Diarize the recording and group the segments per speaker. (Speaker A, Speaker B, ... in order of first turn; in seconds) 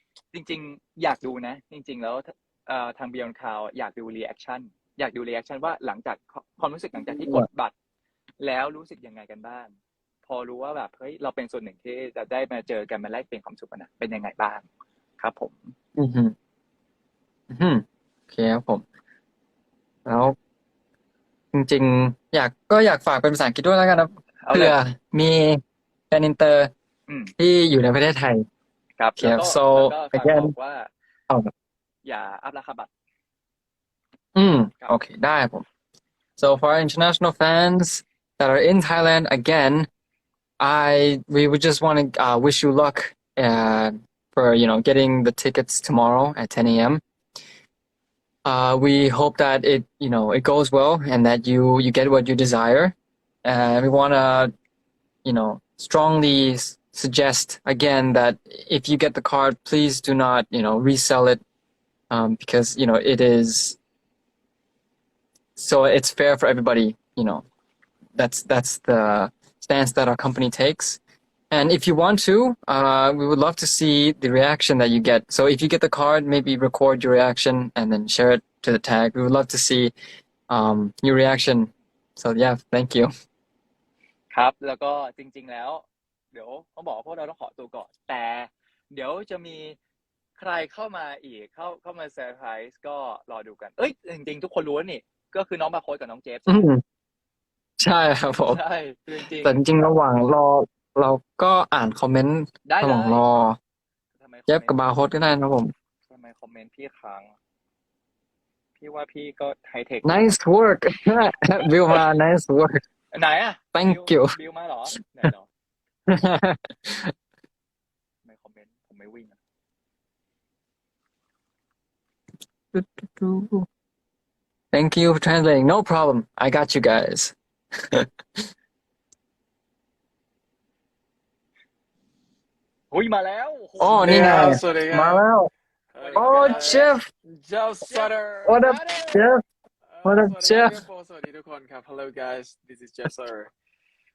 Speaker A: 0.3-7.7, 8.4-9.7, 10.2-14.7, 15.2-15.7, 24.4-24.8, 29.0-30.9, 32.0-32.9, 84.3-89.8, 90.4-96.7, 98.5-99.6, 102.7-103.2, 104.2-104.8, 106.1-107.3, 108.8-110.3, 113.1-115.5, 118.2-119.4, 132.9-134.6, 136.0-136.9, 137.8-139.2
Speaker B: 7.0-7.5, 16.0-16.3, 17.5-18.8, 20.1-20.4, 21.5-26.7, 27.4-28.4, 29.2-30.5, 34.4-35.6, 36.4-39.9, 40.6-47.0, 48.5-54.5, 55.2-61.4, 62.1-63.8, 65.6-67.5, 68.2-71.0, 71.5-79.9, 80.5-83.1, 96.5-96.8, 97.8-98.6, 99.4-103.6, 104.5-105.7, 110.0-112.8, 113.7-114.3, 116.1-117.1, 122.7-123.7, 124.7-127.3, 133.8-135.5, 136.2-137.1, 138.5-139.4, 140.0-140.8
Speaker C: 133.8-135.2, 135.9-138.8, 139.8-143.5